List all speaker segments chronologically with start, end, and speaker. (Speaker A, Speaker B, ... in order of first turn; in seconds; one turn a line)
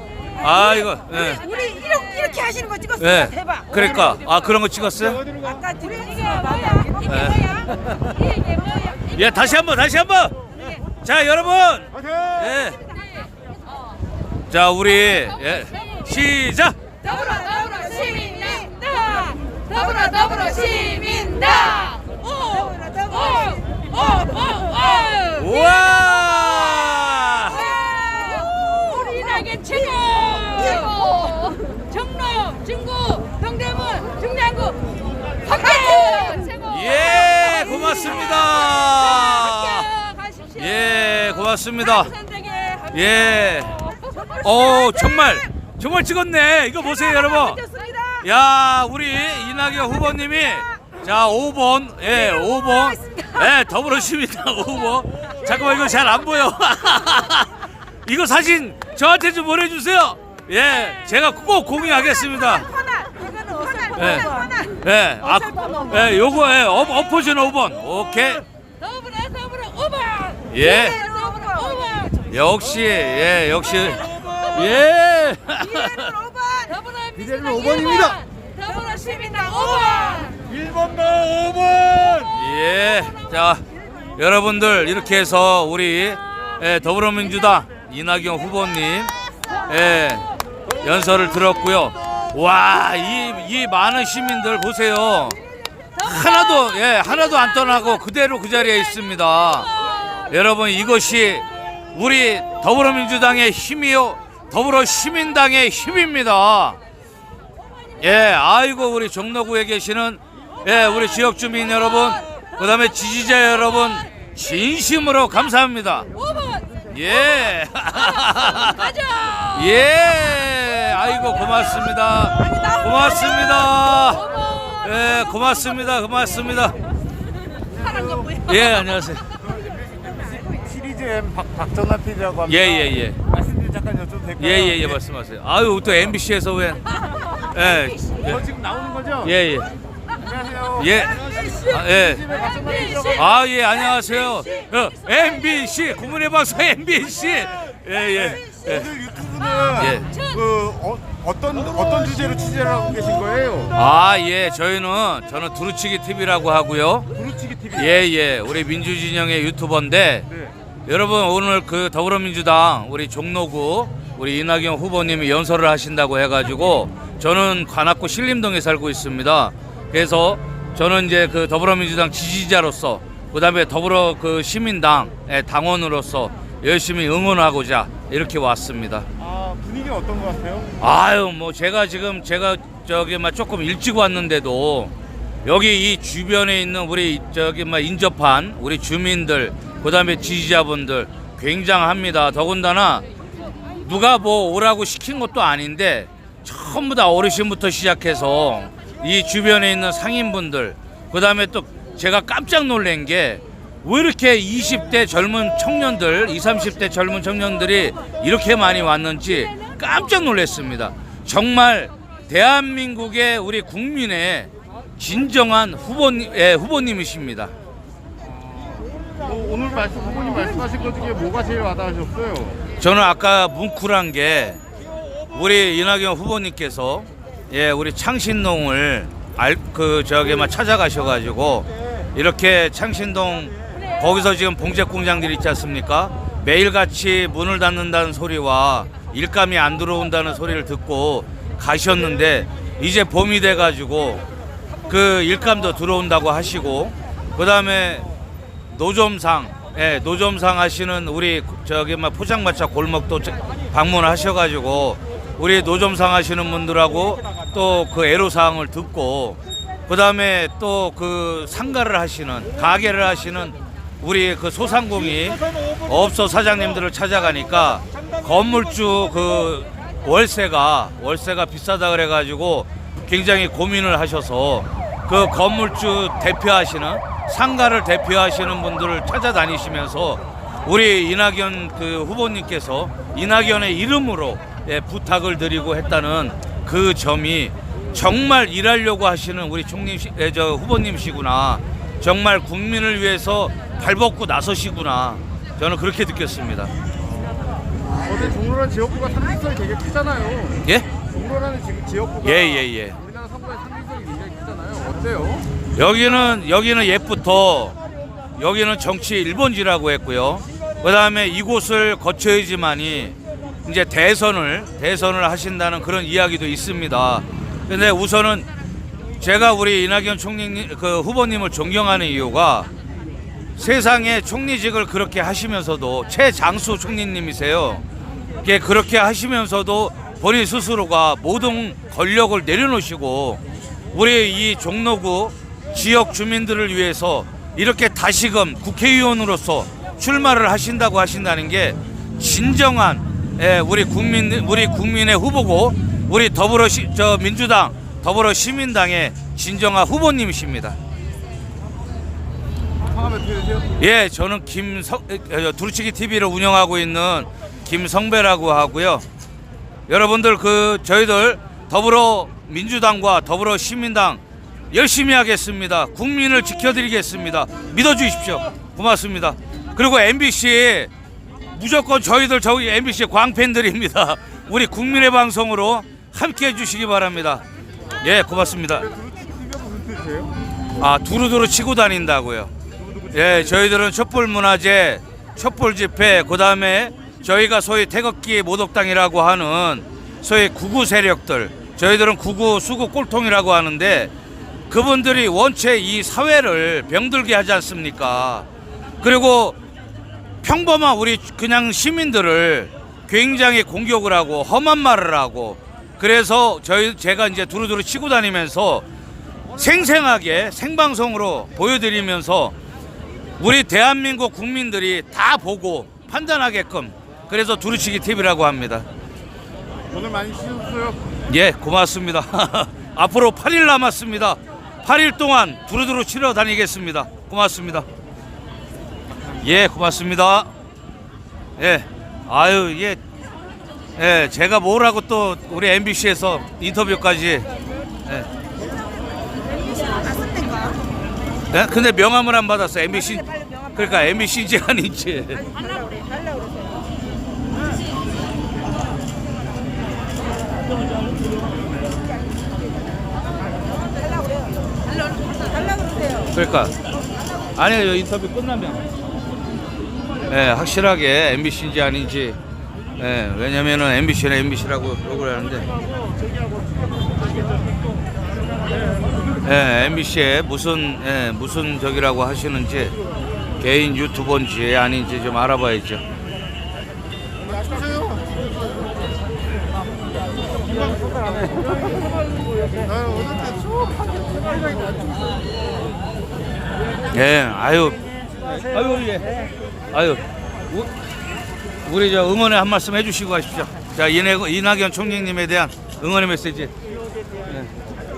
Speaker A: 0.4-1.5
Speaker B: 1.4-2.9
Speaker C: 2.1-2.9
Speaker A: 3.0-5.2
Speaker C: 5.3-7.0
Speaker B: 5.7-9.2
Speaker A: 7.0-7.6
Speaker A: 9.1-10.3
Speaker A: 11.0-12.8
Speaker A: 14.5-16.8
Speaker B: 17.0-26.1
Speaker A: 25.3-27.8
Speaker B: 27.4-34.9
Speaker B: 35.4-40.6
Speaker A: 36.6-39.9
Speaker A: 40.5-42.1
Speaker B: 42.0-43.0
Speaker A: 42.9-43.8
Speaker B: 43.8-44.8
Speaker A: 44.4-62.7
Speaker B: 62.9-64.5
Speaker C: 63.0-63.9
Speaker A: 63.9-68.4
Speaker B: 68.8-72.2
Speaker A: 70.5-71.1
Speaker A: 72.3-76.2
Speaker C: 76.2-76.7
Speaker B: 76.2-80.4
Speaker C: 77.3-78.0
Speaker C: 80.3-82.2
Speaker A: 82.2-83.6
Speaker A: 84.2-89.1
Speaker A: 89.7-90.3
Speaker A: 90.8-95.4
Speaker A: 96.0-106.8
Speaker A: 108.0-116.1
Speaker B: 116.2-116.7
Speaker A: 116.9-118.9
Speaker B: 118.0-119.8
Speaker A: 119.5-126.8
Speaker B: 122.4-122.8
Speaker B: 124.2-124.8
Speaker C: 127.8-128.2
Speaker B: 127.8-128.6
Speaker A: 128.4-129.2
Speaker C: 129.6-132.5
Speaker A: 132.4-133.2
Speaker C: 133.3-134.6
Speaker A: 134.4-136.8
Speaker A: 137.4-138.5
Speaker C: 138.3-139.2
Speaker A: 139.2-139.7
Speaker C: 140.2-140.7
Speaker A: 140.7-142.3
Speaker C: 142.2-143.1
Speaker B: 142.7-143.0
Speaker A: 143.0-149.1
Speaker C: 148.8-149.7
Speaker A: 149.7-150.2
Speaker C: 150.3-153.7
Speaker A: 153.7-157.1
Speaker C: 157.2-157.7
Speaker A: 157.7-160.3
Speaker A: 160.8-179.1
Speaker C: 179.2-180.7
Speaker A: 180.8-184.9
Speaker A: 185.4-193.0
Speaker A: 193.8-217.5
Speaker C: 218.7-222.6
Speaker A: 222.8-224.6
Speaker A: 225.3-244.2
Speaker A: 244.9-248.1
Speaker A: 248.7-296.7
Speaker C: 298.0-302.2
Speaker A: 302.2-303.0
Speaker C: 303.0-305.4
Speaker A: 305.8-307.8
Speaker A: 308.4-318.5
Speaker A: 319.2-322.7
Speaker A: 323.6-327.8
Speaker A: 328.4-350.8
Speaker C: 352.9-353.6
Speaker A: 353.7-359.0
Speaker A: 359.9-370.9
Speaker A: 371.5-377.4
Speaker A: 378.0-378.9
Speaker C: 379.0-380.3
Speaker A: 380.8-382.5
Speaker A: 383.1-394.1
Speaker A: 394.7-398.5
Speaker A: 399.0-399.6
Speaker A: 400.4-408.8
Speaker A: 409.6-412.6
Speaker A: 413.4-418.9
Speaker C: 419.9-421.0
Speaker A: 421.3-427.9
Speaker A: 429.4-430.5
Speaker A: 431.6-433.0
Speaker A: 434.0-437.5
Speaker A: 441.5-445.5
Speaker A: 456.3-456.7
Speaker A: 457.6-458.8
Speaker A: 460.3-462.4
Speaker A: 463.0-465.7
Speaker A: 469.4-473.0
Speaker A: 473.6-476.0
Speaker C: 477.5-478.3
Speaker C: 481.0-481.6
Speaker C: 482.8-483.7
Speaker A: 487.1-488.0
Speaker A: 488.5-489.3
Speaker A: 489.9-490.9
Speaker A: 491.8-496.7